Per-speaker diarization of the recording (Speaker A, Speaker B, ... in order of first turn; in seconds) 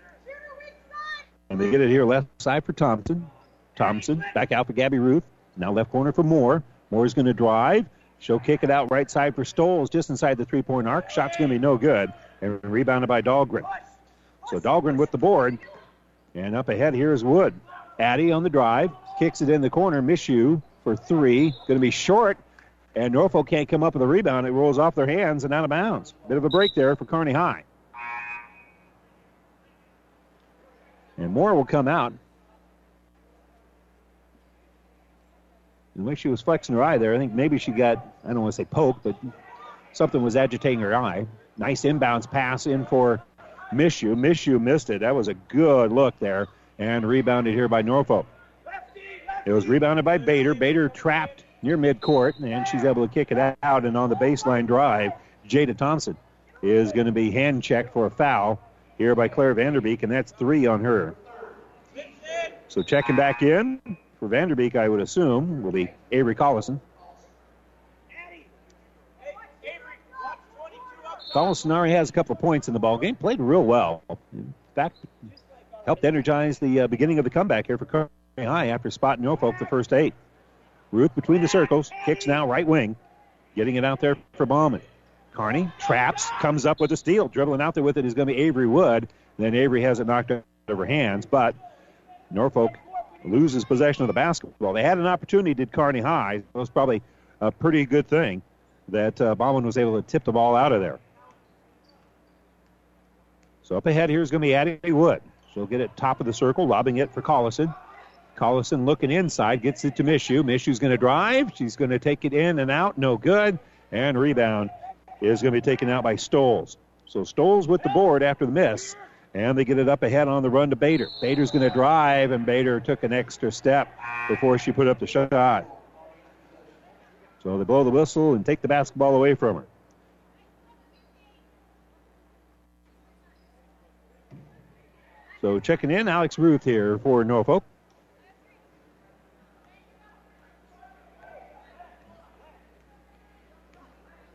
Speaker A: 1.5-13.7, 14.5-15.6, 16.3-22.4, 22.9-27.6, 31.2-32.2, 35.9-39.2, 39.9-48.3, 49.4-61.2, 62.7-66.8, 71.3-75.0, 75.8-80.1, 80.9-83.0, 83.5-91.5, 92.3-101.0, 103.6-107.7, 108.3-125.7, 127.4-129.7, 135.4-137.6